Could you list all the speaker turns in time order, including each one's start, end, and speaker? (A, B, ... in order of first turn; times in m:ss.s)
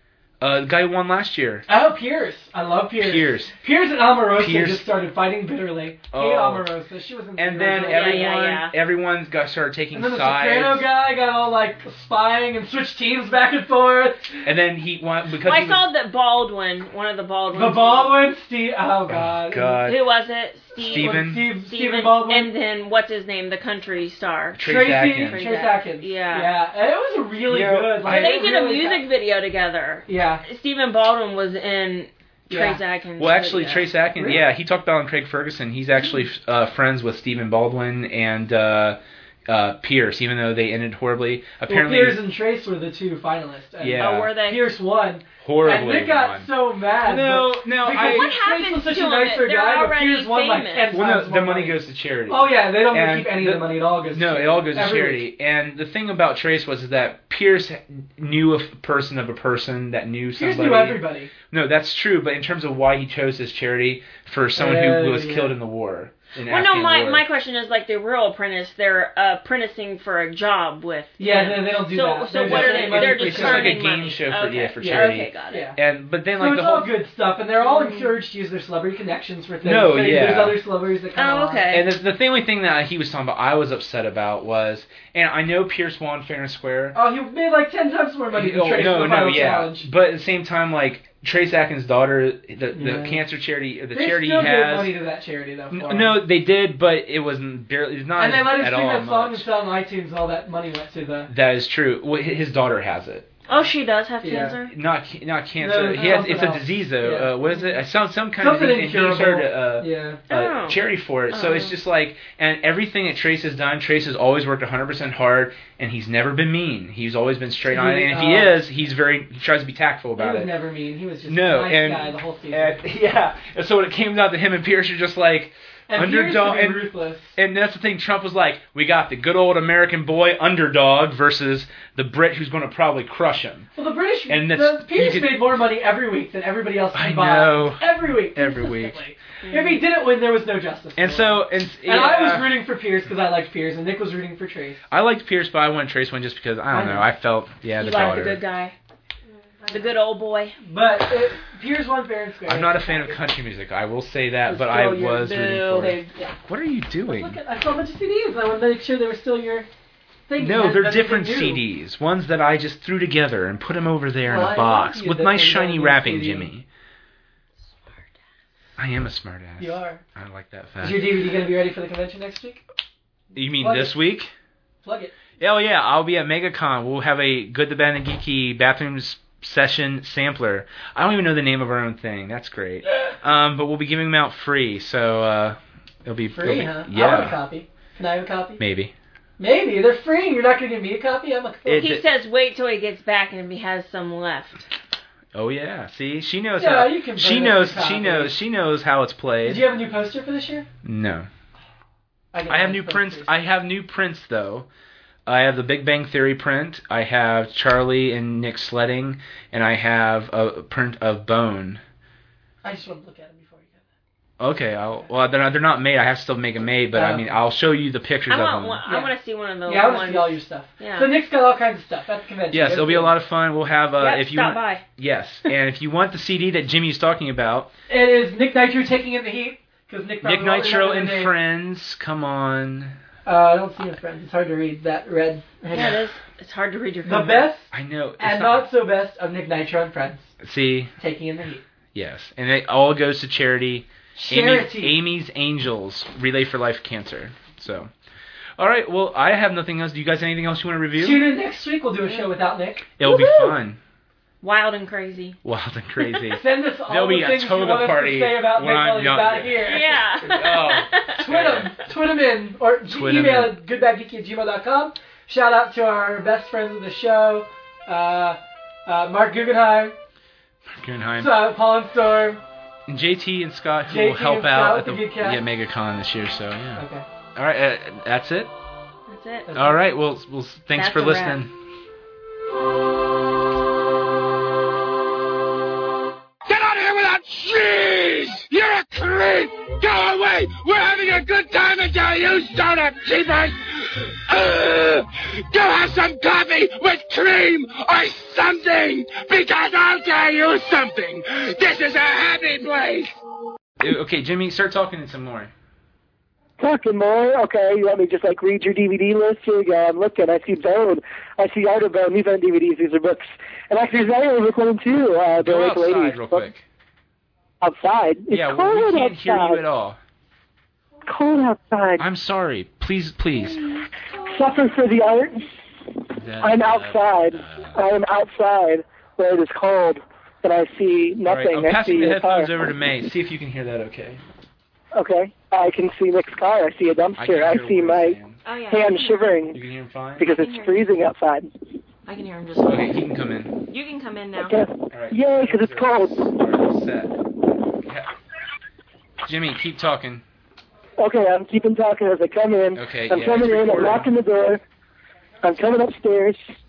0:00.4-0:01.6 A
0:01.7-0:08.3 B
0:03.0-0:03.5 A
0:04.4-0:04.8 A
0:06.1-0:06.7 A
0:07.4-0:10.9 A
0:07.7-0:08.7 C
0:09.9-0:14.3 B
0:14.4-0:15.8 A
0:15.4-0:18.3 C
0:17.5-0:19.8 B
0:19.1-0:20.0 A
0:19.8-0:26.5 C
0:20.8-0:21.5 A
0:20.8-0:22.5 B
0:24.6-0:25.5 A
0:24.6-0:29.0 B
0:27.5-0:28.4 A
0:28.0-0:33.9 C
0:30.1-0:30.4 B
0:32.5-0:32.8 B
0:33.2-0:42.2 A
0:41.7-0:55.2 B
0:43.8-0:44.3 A
0:44.0-0:44.8 C
0:45.4-0:48.3 A
0:48.0-0:51.0 C
0:50.9-1:07.2 A
1:00.4-1:01.3 B
1:04.6-1:05.6 B
1:06.5-1:15.7 C
1:11.2-1:13.8 B
1:12.3-1:16.9 A
1:14.8-1:15.8 B
1:16.4-1:21.6 B
1:17.6-1:18.1 C
1:19.6-1:20.6 A
1:21.2-1:21.9 C
1:21.7-1:27.0 A
1:26.9-1:29.9 B
1:28.3-1:35.0 A
1:32.7-1:33.2 B
1:33.9-1:36.2 B
1:35.7-1:39.5 A
1:38.2-1:41.3 B
1:41.3-1:43.3 A
1:43.5-1:44.7 C
1:44.2-1:44.6 B
1:44.6-2:00.5 A
1:45.6-1:47.6 B
1:46.0-1:46.2 C
1:48.4-1:50.2 B
1:50.3-1:50.8 C
1:51.3-1:51.8 C
1:57.7-1:58.6 B
2:00.2-2:02.8 B
2:01.3-2:13.7 A
2:05.9-2:07.4 B
2:13.8-2:24.8 B
2:14.3-2:15.5 A
2:16.9-2:19.0 A
2:19.4-2:19.8 C
2:21.0-2:22.6 A
2:24.9-2:28.4 A
2:26.7-2:27.1 B
2:27.8-2:28.8 C
2:29.6-2:29.9 B
2:29.7-2:30.6 C
2:30.6-2:33.2 B
2:32.5-2:37.4 A
2:34.5-2:36.1 C
2:37.1-2:39.7 B
2:40.3-2:41.6 B
2:40.4-2:46.7 A
2:44.3-2:46.5 B
2:48.8-2:51.2 A
2:49.6-2:50.0 B
2:50.8-2:52.6 B
2:53.3-2:54.3 A
2:53.6-2:54.0 B
2:54.8-2:55.1 B
2:55.4-3:07.4 A
3:06.4-3:08.6 B
3:08.6-3:08.9 A
3:09.4-3:11.9 B
3:11.7-3:12.1 A
3:11.8-3:14.6 C
3:15.3-3:19.7 A
3:16.6-3:18.3 B
3:19.4-3:20.7 B
3:20.8-3:21.3 A
3:22.3-3:23.3 B
3:22.5-3:24.7 A
3:25.3-3:31.8 A
3:32.6-3:33.9 B
3:34.4-3:38.8 A
3:36.9-3:37.3 B
3:38.3-3:41.1 C
3:38.8-3:39.1 B
3:39.7-3:43.1 B
3:42.5-3:47.7 A
3:44.0-3:44.8 C
3:47.9-3:51.3 B
3:50.2-3:53.0 A
3:53.3-3:56.0 B
3:55.7-3:57.5 C
3:57.1-4:00.3 B
3:57.7-3:58.7 A
4:00.4-4:00.9 A
4:01.0-4:01.6 B
4:02.0-4:07.9 A
4:04.2-4:05.0 B
4:08.6-4:11.3 A
4:11.0-4:13.5 B
4:13.0-4:13.8 A
4:14.4-4:15.4 C
4:15.4-4:21.7 A
4:16.4-4:19.9 B
4:19.6-4:21.2 C
4:21.2-4:29.9 B
4:22.9-4:23.6 A
4:30.7-4:31.5 A
4:31.2-4:32.4 B
4:32.9-4:36.8 A
4:33.9-4:35.4 B
4:36.8-4:37.0 B
4:37.4-4:38.5 A
4:39.1-4:39.5 C
4:39.5-4:39.8 B
4:39.6-4:41.5 A
4:40.8-4:41.4 C
4:46.5-4:53.6 D
4:54.3-5:03.1 D
5:03.8-5:05.5 A
5:06.6-5:16.5 E
5:15.4-5:16.6 A
5:17.6-5:19.6 E
5:18.3-5:20.0 A
5:21.1-5:22.0 E
5:22.0-5:23.8 A
5:23.6-5:24.6 C
5:24.3-5:25.5 E
5:26.2-5:27.8 A
5:26.4-5:32.5 E
5:31.2-5:34.2 A
5:34.9-5:38.2 E
5:37.2-5:38.4 A
5:38.4-5:39.4 C
5:38.7-5:39.6 E
5:39.5-5:40.3 A
5:40.2-5:41.5 E
5:40.4-5:40.9 C
5:42.1-5:43.0 C
5:42.6-5:43.6 A
5:43.7-5:44.6 C
5:44.4-5:46.4 E
5:44.9-5:47.2 A
5:47.8-5:48.1 A
5:49.2-5:50.2 A
5:51.0-5:54.6 E
5:52.8-5:54.1 A
5:55.4-5:56.4 E